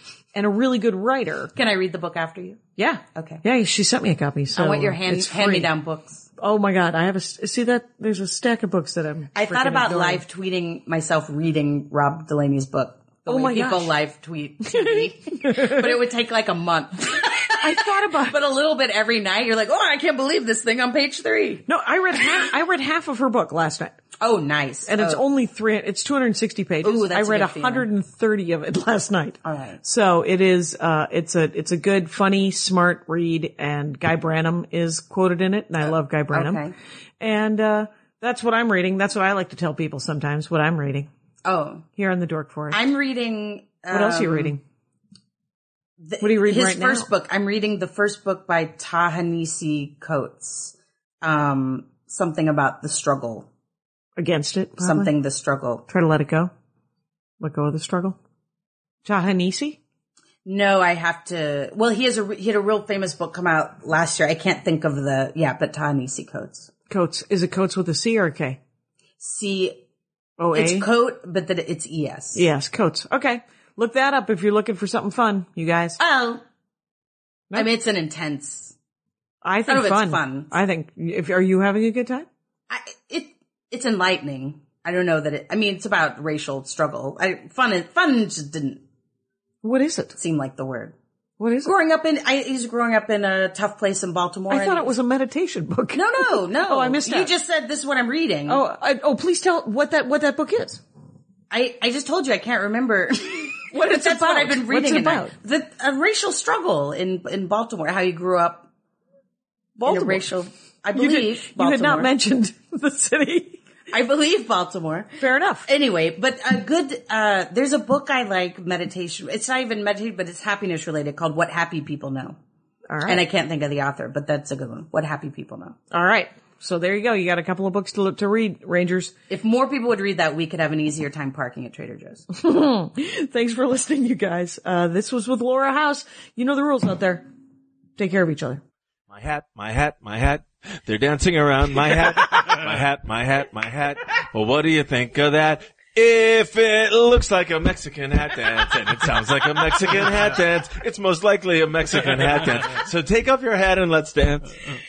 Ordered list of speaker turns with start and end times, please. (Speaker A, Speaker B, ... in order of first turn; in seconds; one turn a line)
Speaker A: 0.3-1.5
Speaker B: 1.5-2.6
Speaker A: 2.8-5.7
Speaker B: 3.1-3.4
Speaker B: 4.5-6.2
Speaker A: 6.4-10.2
Speaker B: 9.3-21.6
Speaker A: 13.3-13.9
Speaker A: 14.7-15.8
Speaker A: 17.6-18.4
Speaker A: 21.7-24.0
Speaker B: 24.2-25.2
Speaker A: 24.9-36.7
Speaker B: 26.8-27.9
Speaker B: 29.4-29.8
Speaker B: 36.3-36.7
Speaker A: 37.2-41.1
Speaker B: 41.4-41.9
Speaker A: 42.0-42.8
Speaker B: 42.7-44.5
Speaker A: 43.9-44.6
Speaker B: 46.0-53.5
Speaker A: 46.2-47.1
Speaker A: 54.2-55.1
Speaker B: 54.8-55.9
Speaker A: 55.9-56.5
Speaker A: 57.4-58.2
Speaker A: 59.0-59.8
Speaker B: 60.4-66.7
Speaker A: 66.9-68.6
Speaker B: 69.2-69.8
Speaker A: 70.4-70.9
Speaker B: 70.5-72.4
Speaker A: 72.3-76.0
Speaker B: 76.0-76.4
Speaker B: 77.5-78.7
Speaker A: 79.4-82.3
Speaker B: 79.7-80.5
Speaker B: 82.7-88.8
Speaker A: 89.6-90.2
Speaker B: 90.2-90.9
Speaker A: 91.4-91.7
Speaker B: 91.6-94.9
Speaker A: 94.5-97.3
Speaker B: 95.9-98.6
Speaker A: 98.5-100.8
Speaker B: 101.5-108.7
Speaker A: 103.7-105.3
Speaker A: 109.8-110.3
Speaker B: 109.8-112.1
Speaker A: 110.9-113.6
Speaker B: 113.9-122.3
Speaker A: 115.2-115.7
Speaker A: 122.9-123.2
Speaker B: 123.0-125.8
Speaker A: 125.9-129.1
Speaker B: 129.3-132.2
Speaker A: 132.3-137.2
Speaker A: 138.0-138.6
Speaker C: 139.1-154.7